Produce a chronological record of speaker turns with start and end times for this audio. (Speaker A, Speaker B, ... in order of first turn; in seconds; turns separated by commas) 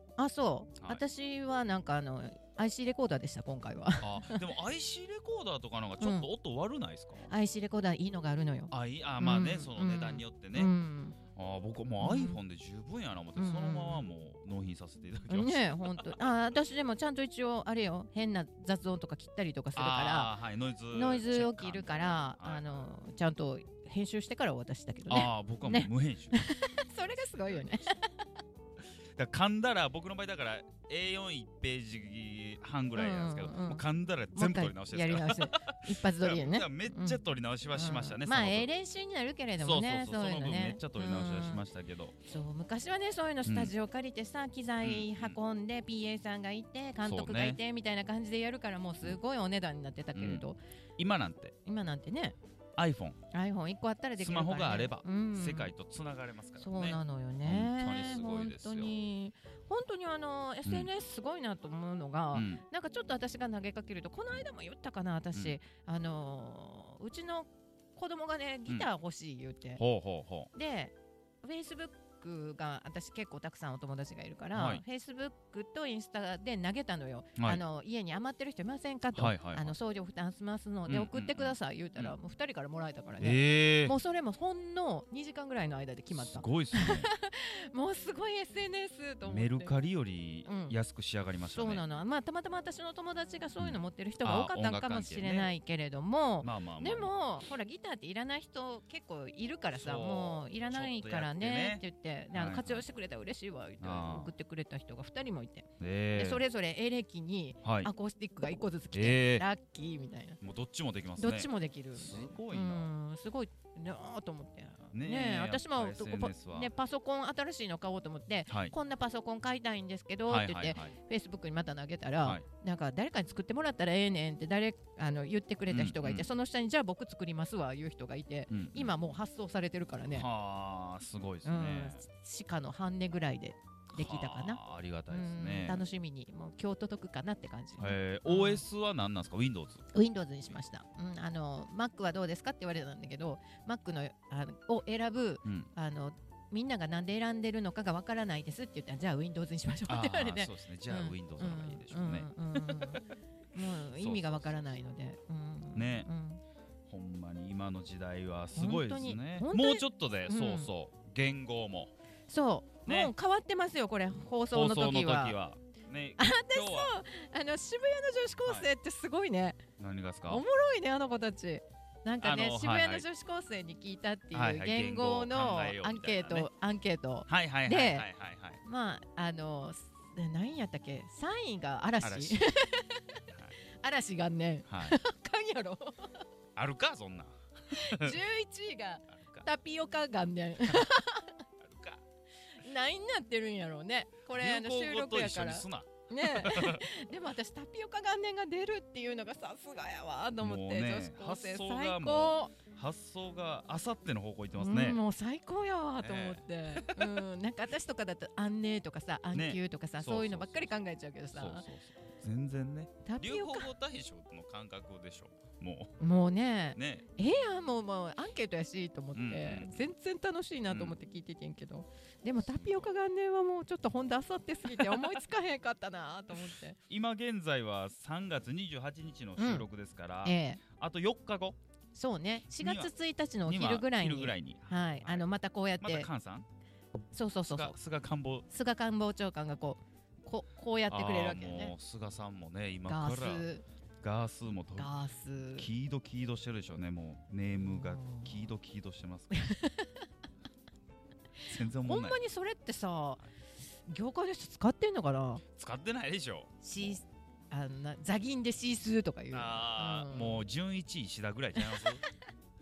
Speaker A: 0.2-4.4, Speaker B: 0.8-1.0, Speaker B: 4.0-7.3, Speaker A: 6.0-6.3, Speaker A: 7.3-11.2, Speaker B: 8.7-10.7, Speaker B: 11.3-16.2, Speaker A: 12.0-12.4, Speaker A: 13.3-14.1, Speaker A: 15.3-20.3, Speaker B: 19.7-22.8, Speaker A: 20.9-28.1, Speaker B: 25.1-26.4, Speaker B: 29.1-38.7, Speaker A: 32.9-33.8, Speaker A: 34.3-37.2, Speaker A: 37.7-41.6, Speaker B: 39.6-42.1, Speaker A: 42.2-50.6, Speaker B: 43.4-43.7, Speaker B: 44.8-45.4, Speaker B: 47.0-47.6, Speaker B: 50.1-50.4, Speaker B: 51.0-51.5, Speaker A: 51.6-52.4, Speaker B: 52.8-53.2, Speaker A: 53.3-55.7, Speaker B: 54.2-58.9, Speaker A: 56.6-69.8, Speaker B: 60.6-60.9, Speaker B: 62.3-62.6, Speaker B: 69.8-70.5, Speaker A: 70.5-89.7, Speaker B: 74.5-74.8, Speaker B: 79.1-79.7, Speaker B: 80.9-82.2, Speaker B: 83.2-83.9, Speaker B: 86.1-87.1, Speaker B: 89.2-91.8, Speaker A: 90.4-90.8, Speaker A: 91.5-110.4, Speaker B: 93.6-95.5, Speaker B: 96.4-97.1, Speaker B: 99.7-102.8, Speaker B: 103.8-104.3, Speaker B: 105.8-106.4, Speaker B: 107.6-107.9, Speaker B: 108.9-109.4, Speaker B: 110.4-112.9, Speaker A: 111.2-130.3, Speaker B: 114.9-116.7, Speaker B: 118.5-118.7, Speaker B: 120.3-120.9, Speaker B: 125.7-126.3, Speaker B: 128.5-128.9, Speaker B: 130.1-132.0, Speaker A: 131.4-138.6, Speaker B: 133.9-135.8, Speaker B: 137.8-139.8, Speaker A: 139.9-156.4, Speaker B: 145.4-145.7, Speaker B: 149.9-153.0, Speaker B: 153.9-154.7, Speaker B: 155.7-156.1, Speaker B: 156.8-161.9, Speaker A: 158.5-160.7, Speaker A: 162.3-165.3, Speaker B: 162.9-163.1, Speaker B: 164.5-166.9, Speaker A: 166.2-169.6, Speaker B: 169.8-170.4, Speaker A: 170.3-178.1, Speaker B: 172.2-173.1, Speaker B: 174.3-176.5, Speaker B: 177.3-178.6, Speaker A: 178.6-183.2, Speaker B: 182.0-182.4, Speaker B: 183.3-183.5, Speaker A: 183.8-186.2, Speaker B: 184.7-185.0, Speaker B: 186.6-188.2, Speaker A: 187.7-191.4, Speaker B: 189.1-189.5, Speaker B: 191.6-192.0, Speaker A: 192.5-202.5, Speaker B: 194.3-196.9, Speaker B: 200.4-205.0, Speaker A: 204.6-211.7, Speaker B: 206.0-207.2, Speaker B: 209.3-210.8, Speaker B: 211.3-215.9, Speaker A: 213.0-213.7, Speaker A: 216.0-226.8, Speaker B: 216.7-217.1, Speaker B: 219.1-219.9, Speaker B: 220.7-221.0, Speaker B: 222.4-222.9, Speaker B: 224.7-225.2, Speaker B: 226.9-231.6, Speaker A: 229.4-229.7, Speaker A: 230.2-230.6, Speaker A: 231.9-236.1, Speaker B: 232.6-232.9, Speaker B: 233.4-235.2, Speaker B: 235.8-236.5, Speaker A: 237.1-237.7, Speaker B: 237.4-238.5, Speaker A: 238.5-241.7, Speaker B: 240.9-243.5, Speaker A: 242.8-243.6, Speaker B: 244.0-244.9, Speaker A: 244.7-245.7, Speaker B: 245.5-249.5, Speaker A: 247.6-248.5, Speaker A: 249.3-250.1, Speaker B: 251.5-252.2, Speaker A: 251.5-253.2, Speaker A: 253.9-255.4, Speaker B: 255.5-257.0, Speaker A: 256.6-260.4, Speaker B: 259.3-262.0, Speaker A: 261.6-262.1